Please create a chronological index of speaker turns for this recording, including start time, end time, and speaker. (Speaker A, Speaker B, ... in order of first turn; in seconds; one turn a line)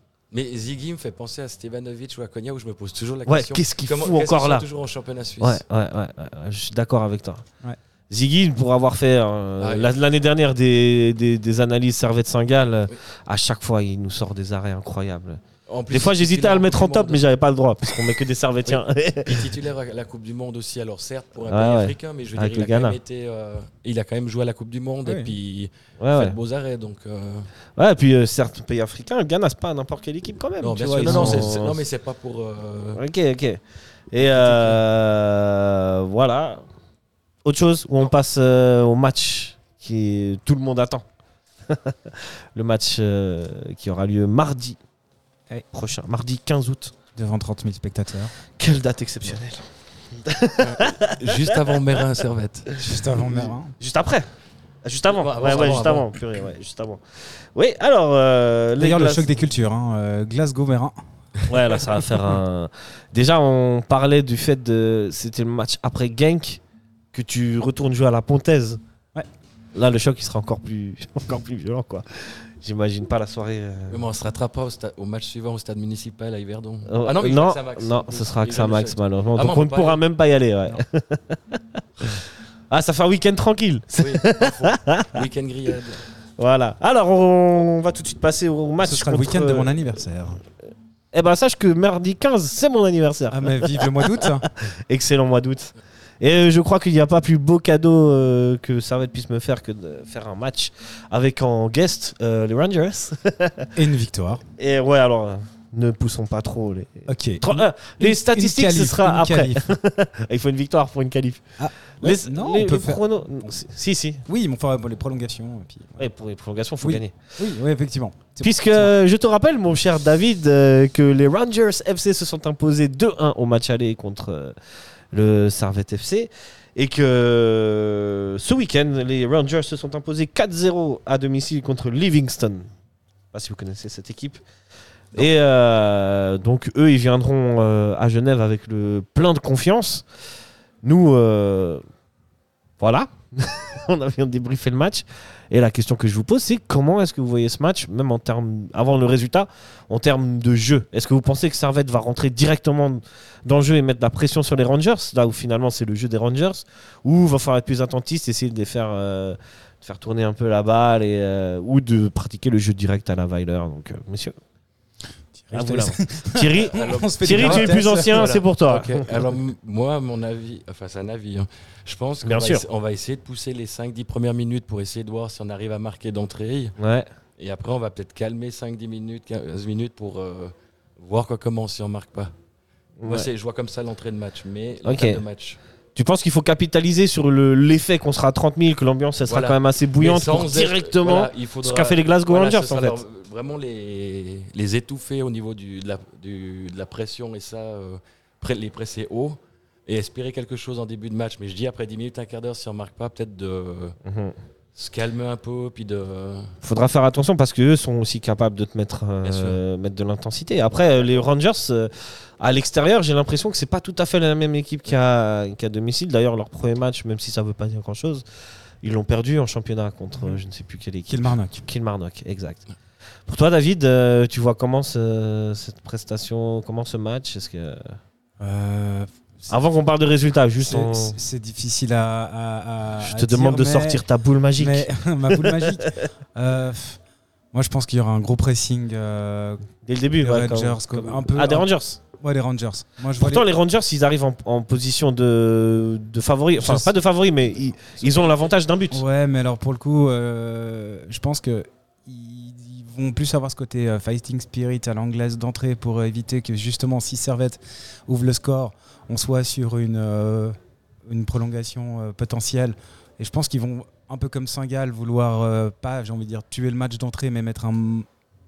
Speaker A: 0.3-5.6
Speaker B: 3.3-4.6
Speaker B: 5.4-7.4
Speaker B: 8.1-19.5
Speaker A: 9.6-9.9
Speaker A: 15.7-17.2
Speaker A: 18.6-27.5
Speaker B: 21.5-22.9
Speaker C: 25.1-25.3
Speaker B: 26.0-26.4
Speaker B: 27.8-31.8
Speaker A: 30.6-33.0
Speaker C: 31.0-31.4
Speaker B: 33.0-33.6
Speaker B: 34.1-36.6
Speaker A: 34.2-34.8
Speaker B: 37.4-41.0
Speaker B: 41.7-44.8
Speaker B: 45.7-46.9
Speaker C: 47.1-48.3
Speaker B: 48.6-49.7
Speaker B: 50.2-51.8
Speaker A: 50.6-52.7
Speaker C: 52.8-53.7
Speaker B: 53.8-54.3
Speaker B: 54.8-59.3
Speaker A: 55.1-56.1
Speaker C: 58.8-61.0
Speaker B: 61.5-66.6
Speaker B: 67.1-68.8
Speaker B: 69.7-74.0
Speaker A: 73.9-80.0
Speaker B: 76.9-85.2
Speaker A: 84.0-86.0
Speaker B: 86.4-89.7
Speaker C: 88.8-90.4
Speaker B: 91.1-103.7
Speaker C: 93.3-94.5
Speaker C: 103.7-104.4
Speaker B: 104.6-111.5
Speaker C: 107.1-109.7
Speaker C: 111.6-113.5
Speaker B: 112.0-114.2
Speaker C: 114.2-116.1
Speaker B: 116.0-117.1
Speaker C: 116.8-118.9
Speaker B: 118.4-124.5
Speaker B: 125.1-132.7
Speaker B: 133.3-134.4
Speaker B: 135.1-140.0
Speaker B: 140.8-141.8
Speaker B: 142.8-164.3
Speaker C: 165.3-168.3
Speaker B: 165.5-169.1
Speaker A: 166.6-176.7
Speaker B: 172.2-172.6
Speaker B: 176.8-177.1
Speaker A: 177.4-182.3
Speaker B: 183.0-183.3
Speaker A: 183.0-185.6
Speaker B: 184.8-185.2
Speaker B: 185.9-193.0
Speaker A: 189.3-204.0
Speaker B: 204.0-204.3
Speaker A: 204.7-206.5
Speaker B: 206.6-218.2
Speaker A: 209.2-209.6
Speaker B: 218.8-222.6
Speaker C: 221.1-221.6
Speaker B: 223.3-227.9
Speaker C: 228.4-229.5
Speaker B: 229.5-231.1
Speaker C: 230.6-234.0
Speaker B: 233.0-236.1
Speaker C: 234.6-237.0
Speaker C: 237.5-239.6
Speaker B: 239.8-242.0
Speaker C: 240.2-243.4
Speaker B: 243.2-249.0
Speaker C: 246.6-246.9
Speaker C: 248.9-268.1